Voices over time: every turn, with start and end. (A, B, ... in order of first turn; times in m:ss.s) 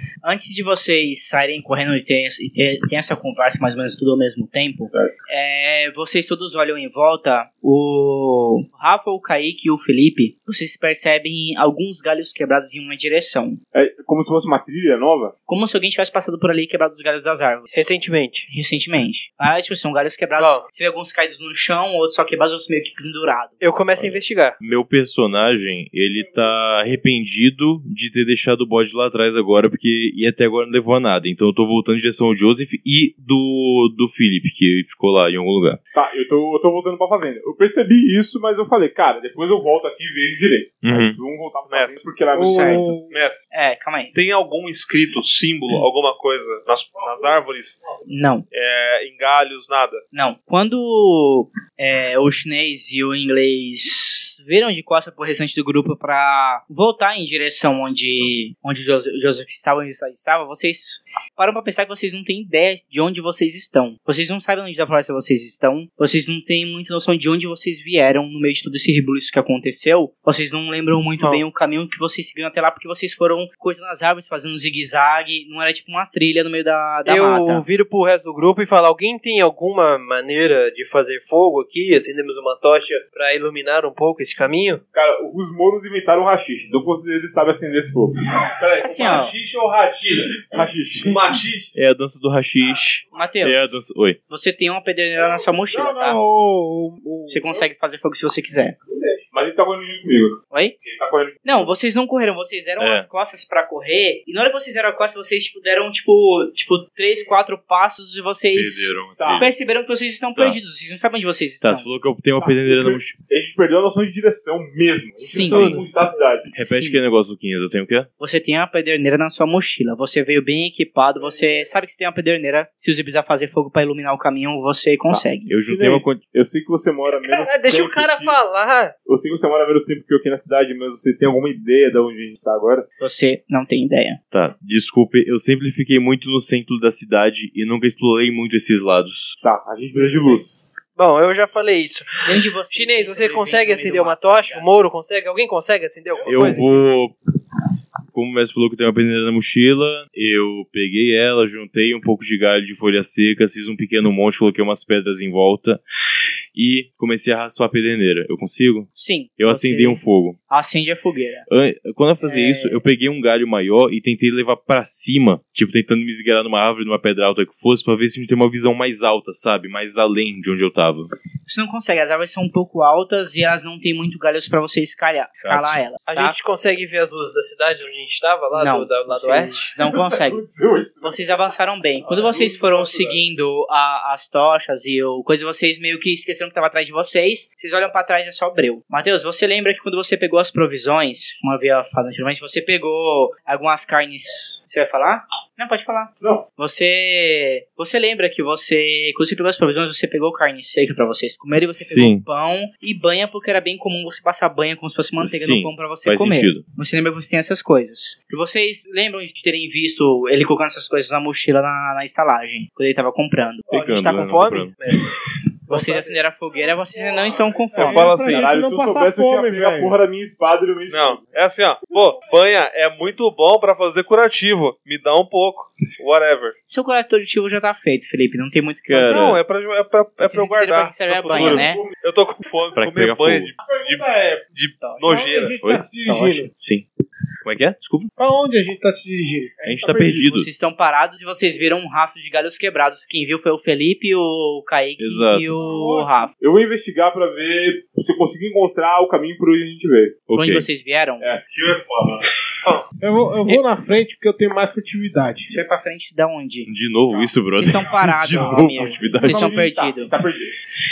0:00.2-0:13.6 A
0:13.7-0:15.3 B
0:15.5-0:17.8 A
0:17.7-0:18.5 C
0:18.5-0:23.6 A
0:20.4-0:20.6 C
0:23.6-0:24.6 C
0:24.0-0:35.8 D
0:35.9-0:43.0 B
0:40.8-0:41.2 D
0:41.7-0:42.0 E
0:42.3-0:43.2 F
0:42.4-0:43.0 A
0:43.1-0:43.5 E
0:43.5-0:44.1 A
0:44.1-0:47.8 E
0:46.9-0:47.4 F
0:48.1-0:48.4 A
0:48.5-0:50.0 E
0:50.1-1:17.6 A
1:11.2-1:11.4 C
1:17.0-1:24.8 C
1:24.9-1:31.2 B
1:28.6-1:29.2 E
1:28.8-1:29.3 A
1:31.0-1:31.7 E
1:31.7-1:34.2 D
1:33.1-1:36.2 A
1:35.2-1:37.7 F
1:37.3-1:38.8 A
1:38.8-1:39.2 F
1:39.3-1:41.4 B
1:40.5-1:40.8 A
1:41.4-1:51.9 A
1:42.8-1:43.1 D
1:48.5-1:49.5 D
1:49.2-1:49.5 B
1:51.6-1:53.1 D
1:52.4-1:56.5 B
1:55.2-1:55.7 A
1:55.4-1:55.8 C
1:56.5-1:58.1 D
1:56.6-1:57.0 A
1:58.2-2:05.5 A
2:01.2-2:01.7 F
2:05.1-2:08.4 B
2:05.4-2:06.2 D
2:07.1-2:08.9 C
2:09.0-2:12.8 B
2:13.0-2:14.2 A
2:14.3-2:19.4 D
2:19.4-2:20.6 B
2:21.0-2:26.7 C
2:22.2-2:24.6 A
2:26.2-2:26.7 B
2:26.3-2:27.1 D
2:28.1-2:35.8 D
2:36.5-2:40.4 D
2:39.0-2:41.4 A
2:41.5-2:51.1 D
2:42.2-2:42.8 A
2:51.4-2:56.4 A
2:55.4-2:55.8 D
2:56.1-2:59.6 C
2:58.5-3:00.4 A
2:59.8-3:01.4 B
3:01.0-3:34.4 A
3:02.0-3:03.2 B
3:21.8-3:22.2 D
3:25.2-3:26.6 D
3:33.7-3:34.7 D
3:33.7-3:35.1 C
3:35.7-3:38.1 A
3:35.7-3:36.2 C
3:36.5-3:40.0 F
3:37.8-3:38.5 E
3:38.0-3:41.2 B
3:40.9-3:46.6 E
3:46.7-3:49.4 A
3:48.9-3:49.4 D
3:49.0-3:55.6 E
3:50.2-3:51.8 A
3:51.3-3:51.9 B
3:52.8-3:53.5 D
3:53.6-3:56.5 F
3:54.8-3:55.1 A
3:55.6-3:56.8 D
3:57.4-3:58.1 D
3:58.2-3:59.9 F
3:59.6-4:00.2 B
3:59.6-4:00.5 D
4:00.2-4:06.3 A
4:05.0-4:05.5 D
4:05.5-4:06.3 F
4:06.4-4:10.2 B
4:10.3-4:10.7 D
4:10.3-4:11.3 A
4:11.5-4:12.2 E
4:13.0-4:15.5 F
4:15.5-4:16.7 A
4:16.7-4:19.5 D
4:17.5-4:20.1 A
4:18.4-4:18.8 F
4:18.4-4:20.5 B